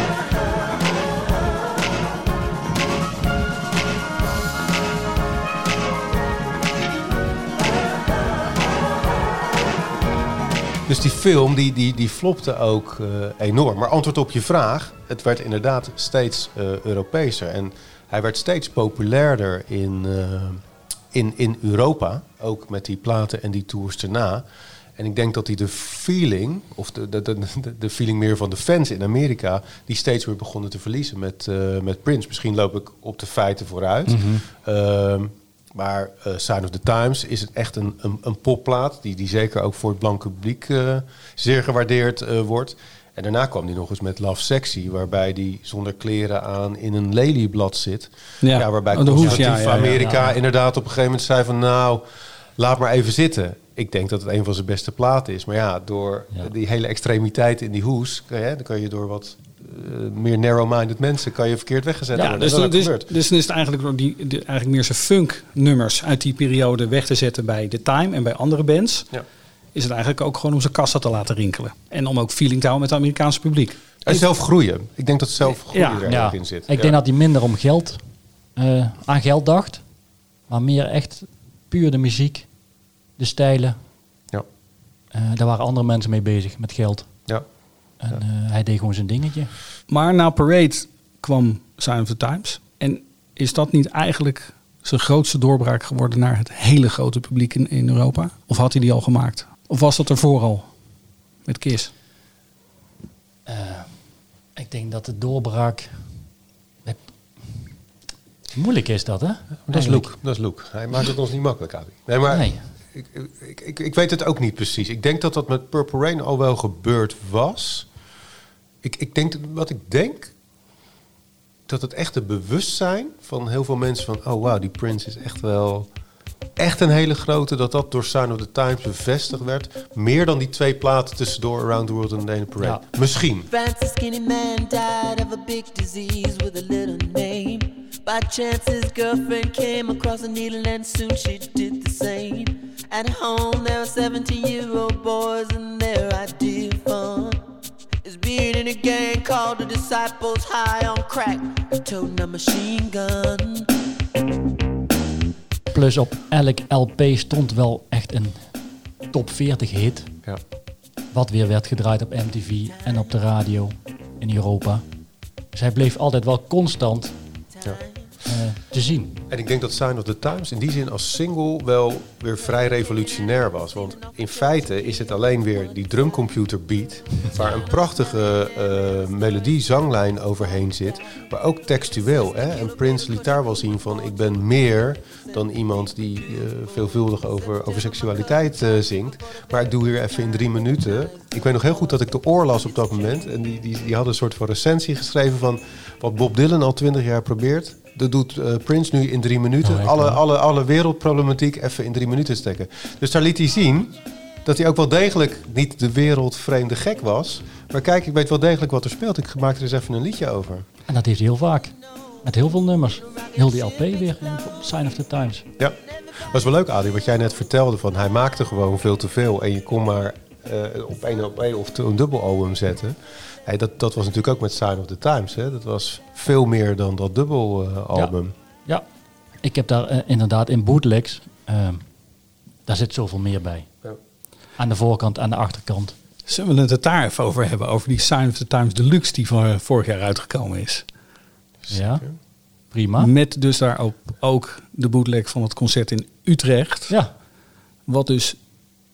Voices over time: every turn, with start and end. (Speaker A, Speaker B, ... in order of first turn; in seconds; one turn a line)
Speaker A: 10.9-24.4
Speaker A: 25.0-52.0
Speaker B: 34.1-34.5
Speaker C: 48.4-50.0
Speaker B: 49.2-50.4
Speaker A: 52.6-63.1
Speaker C: 62.2-69.1
Speaker C: 69.8-74.2
Speaker A: 74.1-77.0
Speaker C: 75.7-76.0
Speaker B: 76.1-78.0
Speaker B: 78.6-79.8
Speaker B: 80.5-82.5
Speaker B: 83.2-83.8
Speaker B: 85.1-87.3
Speaker B: 88.0-89.5
Speaker C: 89.9-100.7
Speaker C: 101.5-101.9
Speaker B: 103.5-104.0
Speaker B: 104.6-106.2
Speaker B: 106.8-107.8
Speaker B: 108.5-110.1
Speaker A: 109.7-117.9
Speaker B: 112.3-112.6
Speaker A: 118.8-120.3
Speaker A: 121.7-125.9
Speaker A: 126.6-133.5
Speaker D: 133.5-147.4
Speaker D: 148.0-153.7
Speaker B: 155.7-158.5
Speaker B: 159.1-160.1
Speaker B: 161.1-164.8
Speaker B: 165.5-167.1
Speaker B: 168.2-169.2
Speaker A: 169.3-210.7
Speaker D: 173.9-175.9
Speaker D: 177.3-178.9
Speaker D: 181.9-184.4
Speaker D: 190.8-191.6
Speaker B: 199.6-200.2
Speaker B: 210.9-215.4
Speaker A: 215.6-228.3
Speaker B: 229.4-231.8
Speaker B: 232.7-233.7
Speaker B: 234.6-235.9
Speaker C: 236.3-240.9
Speaker A: 241.6-242.1
Speaker B: 241.7-242.1
Speaker B: 242.7-243.1
Speaker C: 243.0-246.9
Speaker C: 247.9-248.4